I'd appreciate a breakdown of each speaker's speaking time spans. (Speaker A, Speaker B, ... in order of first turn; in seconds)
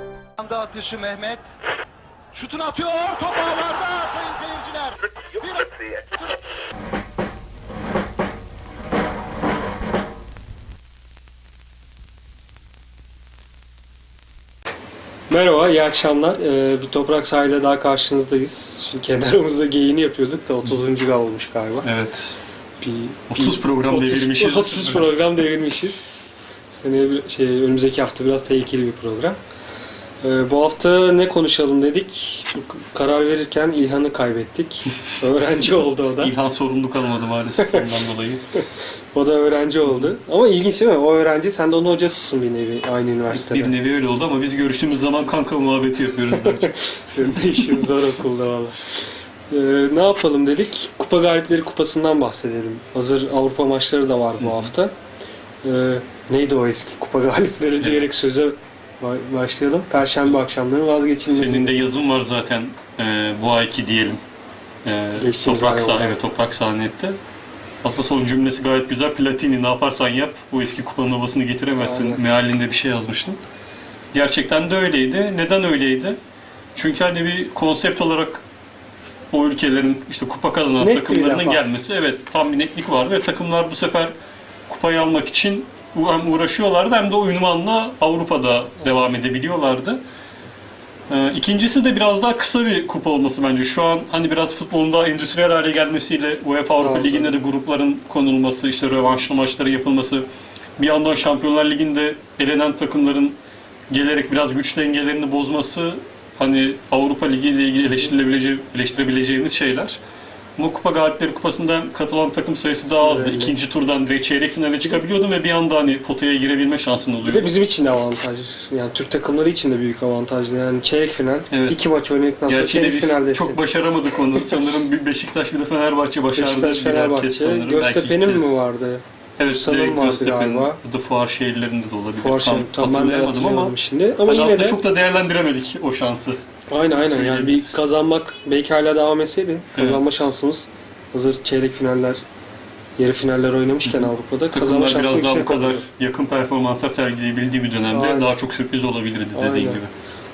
Speaker A: 0.4-1.4, 2.3-6.3
Speaker B: 15.3-21.9, 22.8-29.4, 30.2-36.3, 39.1-43.7, 46.3-48.9, 49.5-54.9, 55.6-61.7, 65.2-66.2, 71.8-72.2, 80.8-81.7, 96.8-97.4, 112.9-113.6, 117.2-124.7, 126.3-130.8, 132.1-134.8, 136.7-142.2, 143.0-145.8, 147.9-148.3, 149.3-149.8
Speaker C: 21.8-22.4, 23.3-25.2, 36.2-38.4, 39.9-40.1, 43.3-47.8, 54.4-54.7, 57.8-58.3, 60.0-60.4, 61.3-64.2, 64.8-67.2, 67.8-73.4, 74.1-76.2, 76.8-78.4, 79.3-84.1, 84.7-90.0, 91.1-100.3, 100.8-103.4, 103.9-110.0, 110.6-117.5, 121.5-121.8, 122.5-128.6, 129.4-133.7, 134.2-136.4, 136.9-137.8, 139.7-140.3, 143.8-149.9